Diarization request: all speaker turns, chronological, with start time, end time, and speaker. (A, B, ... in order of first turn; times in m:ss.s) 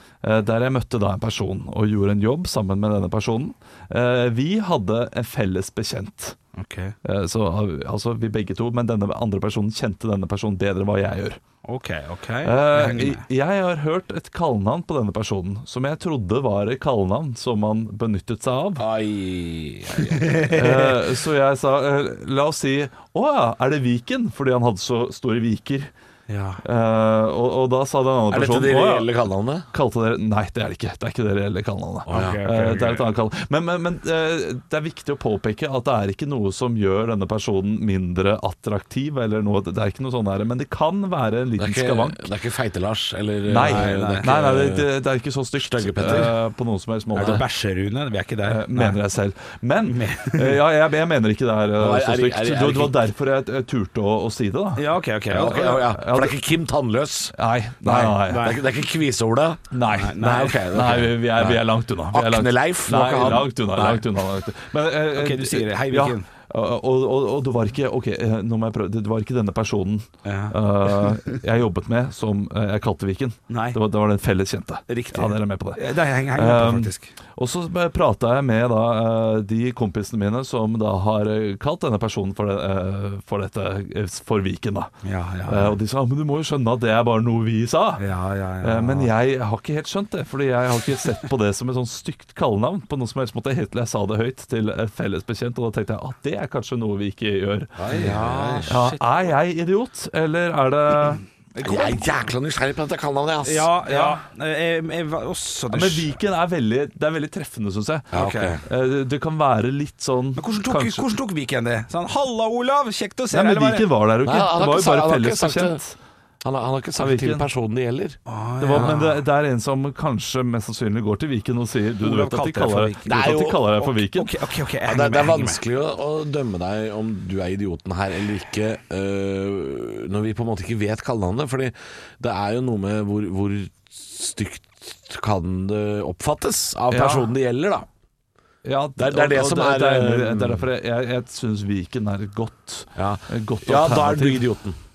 0:00.2-0:06.4 A
0:06.6-0:07.0 B
0:07.0-0:11.4 A
0:11.6-0:13.2 B
0:12.4-0:18.8 A
0:18.8-0:20.5 C
0:20.1-0:20.8 B
0:20.5-0:25.9 A
0:26.3-0:26.6 B
0:26.6-0:29.1 A
0:28.3-0:29.7 C
0:29.7-0:42.3 A
0:32.0-0:32.4 C
0:32.1-0:33.0 B
0:41.6-0:44.9 C
0:43.5-0:47.4 A
0:43.5-0:44.3 B
0:45.6-0:46.3 C
0:47.1-0:49.0 B
0:48.4-0:54.8 A
0:49.8-0:50.6 B
0:51.8-0:53.0 C
0:54.8-0:55.8 B
0:55.3-1:04.0 C
0:55.7-0:56.4 A
0:57.3-0:58.5 A
0:57.9-0:58.6 B
0:59.7-1:24.9 A
0:59.9-1:00.6 B
1:05.1-1:06.3 B
1:10.2-1:10.6 B
1:13.5-1:13.8 B
1:14.9-1:17.1 B
1:25.0-1:25.8 B
1:25.5-1:28.0 A
1:28.0-1:29.1 B
1:28.6-1:37.9 A
1:37.8-1:39.0 C
1:37.9-1:39.0 B
1:38.7-1:41.8 A
1:41.6-1:43.7 C
1:43.4-1:46.1 B
1:43.8-1:44.2 A
1:45.7-1:51.1 A
1:48.1-1:48.6 C
1:48.1-1:48.6 B
1:50.4-1:53.9 B
1:53.3-1:56.0 A
1:54.2-1:55.8 C
1:56.4-1:58.2 C
1:57.0-1:57.4 A
1:58.3-1:59.2 B
1:58.6-2:04.3 A
2:02.0-2:03.2 B
2:03.0-2:03.6 C
2:03.7-2:05.6 B
2:04.8-2:17.9 C
2:16.9-2:17.3 A
2:18.6-2:24.4 A
2:19.0-2:20.7 C
2:23.0-2:24.8 C